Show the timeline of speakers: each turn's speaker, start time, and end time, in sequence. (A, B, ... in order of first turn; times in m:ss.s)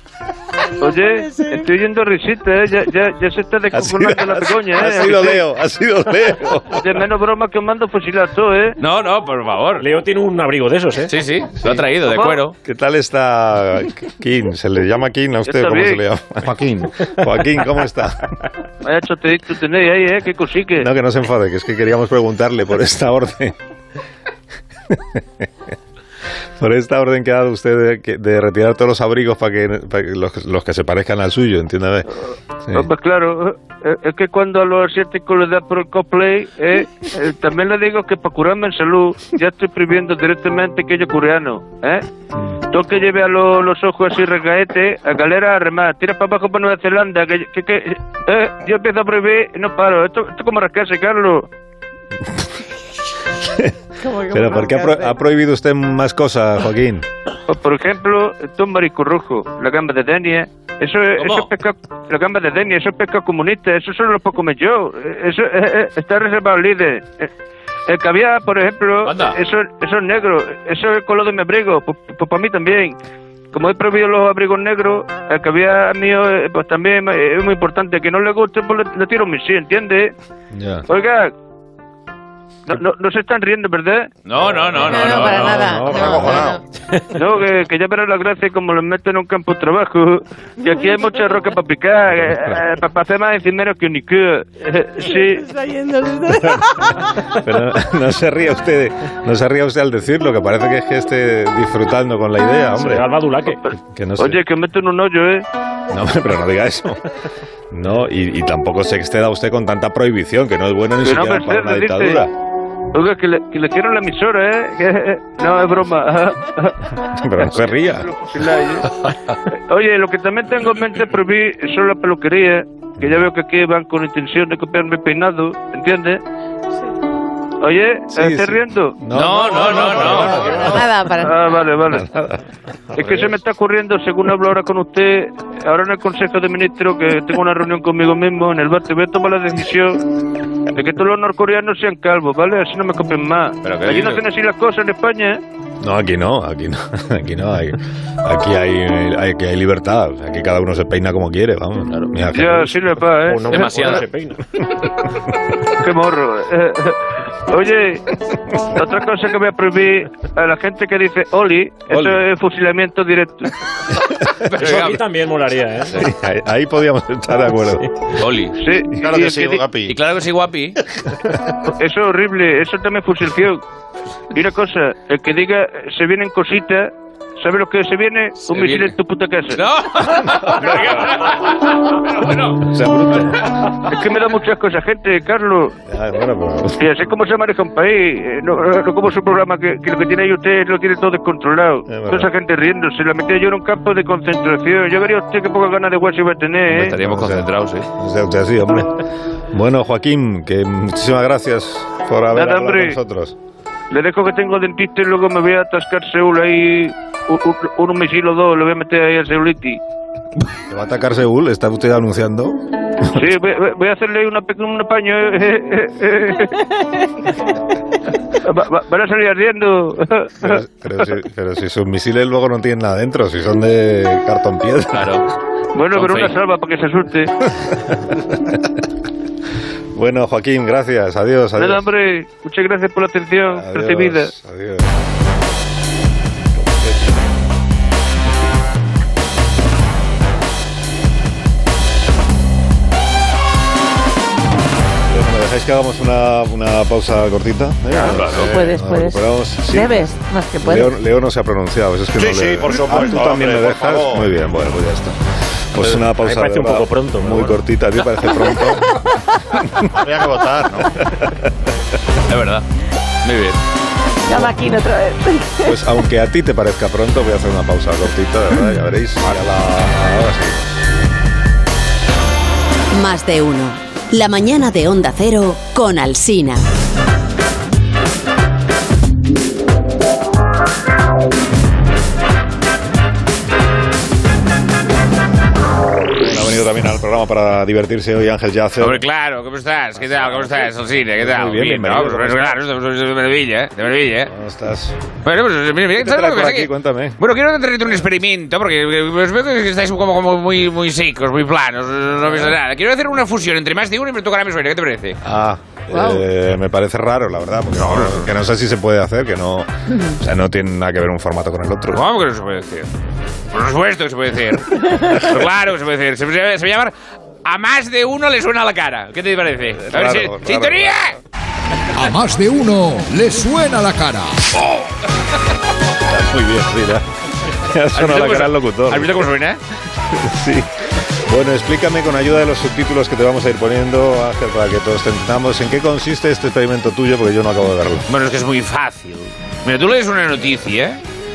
0:00.8-0:05.4 A
0:00.9-0:01.5 B
0:03.7-0:06.8 C
0:06.7-0:08.8 A
0:08.8-0:09.8 D
0:09.8-0:11.1 E
0:11.1-0:12.5 D
0:12.0-0:12.4 A
0:12.6-0:16.5 C
0:15.5-0:16.0 A
0:16.4-0:17.1 F
0:17.0-0:18.4 C
0:18.8-0:20.9 A
0:20.8-0:23.5 C
0:24.9-0:25.5 C
0:26.6-0:32.1 C
0:32.7-0:42.0 A
0:42.7-0:51.5 A
0:53.4-0:53.7 C
0:54.0-0:55.2 B
0:54.3-0:57.1 C
0:57.5-1:07.3 A
1:01.2-1:01.5 D
1:07.9-1:13.0 A
1:09.0-1:09.4 D
1:13.5-1:20.1 A
1:20.5-1:20.8 C
1:20.9-1:21.3 A
1:22.7-1:24.1 A
1:24.3-1:25.8 D
1:24.8-1:26.5 B
1:25.6-1:26.4 E
1:25.9-1:26.6 F
1:27.1-1:35.5 A
1:32.1-1:32.6 C
1:35.4-1:37.0 B
1:36.6-1:43.1 C
1:42.7-1:43.6 E
1:43.7-1:44.4 C
1:44.2-1:45.4 A
1:45.9-1:47.0 C
1:47.7-1:52.3 C
1:51.0-1:52.2 A
1:52.9-1:56.9 A
1:57.1-1:58.1 C
1:57.5-2:06.2 A
2:07.6-2:09.0 A
2:08.1-2:10.9 C
2:09.1-2:10.4 D
2:09.1-2:10.4 G
2:10.6-2:11.4 B
2:11.2-2:12.1 A
2:11.9-2:12.4 C
2:12.9-2:13.4 C
2:12.9-2:20.2 A
2:20.7-2:25.4 A
2:23.6-2:24.2 D
2:25.8-2:32.8 C
2:32.3-2:34.0 A
2:33.3-2:34.4 E
2:33.5-2:34.0 D
2:35.7-2:38.0 A
2:38.6-2:43.5 A
2:44.5-2:45.0 D
2:44.6-2:46.0 E
2:45.9-2:47.9 C
2:48.2-2:48.6 D
2:48.6-2:49.6 A
2:49.0-2:50.0 F
2:49.9-2:50.6 D
2:51.6-2:53.6 A
2:54.3-2:59.6 A
2:58.5-2:58.9 D
2:59.6-3:00.8 G
3:00.0-3:00.7 D
3:00.4-3:01.0 C
3:02.6-3:03.6 C
3:03.8-3:05.8 A
3:05.9-3:06.8 C
3:06.8-3:17.0 A
3:11.9-3:12.3 C
3:16.7-3:17.9 D
3:16.8-3:23.3 C
3:22.3-3:23.0 A
3:23.9-3:29.8 A
3:30.7-3:33.2 C
3:33.1-3:36.6 A
3:38.4-3:40.6 A
3:40.4-3:45.2 C
3:44.9-3:45.3 D
3:45.7-3:47.3 A
3:45.9-3:46.4 D
3:47.6-3:48.6 C
3:49.9-3:51.8 C
3:51.6-3:54.3 A
3:53.5-3:55.0 C
3:56.7-3:57.1 C
4:05.1-4:15.2 C
4:07.9-4:08.5 D
4:08.4-4:10.9 B
4:12.2-4:14.3 F
4:15.7-4:19.0 C
4:15.8-4:17.6 E
4:19.6-4:19.9 C
4:19.9-4:20.9 F
4:21.1-4:21.4 C
4:22.3-4:22.6 D
4:23.2-4:23.6 D
4:24.2-4:25.8 B
4:25.6-4:30.8 C
4:32.9-4:36.6 H
4:46.2-4:49.0 C
4:48.8-4:54.3 G
4:50.0-4:52.6 C
4:54.3-4:55.0 C
4:55.2-5:05.2 G
4:56.0-4:57.2 C
5:05.2-5:12.0 C
5:05.9-5:06.2 B
5:07.9-5:08.2 G
5:11.9-5:12.9 G
5:13.5-5:16.9 G
5:17.4-5:21.1 G
5:19.7-5:21.1 C
5:21.9-5:24.7 I
5:26.0-5:29.2 C
5:27.9-5:29.6 G
5:30.1-5:38.1 C
5:38.1-5:41.0 G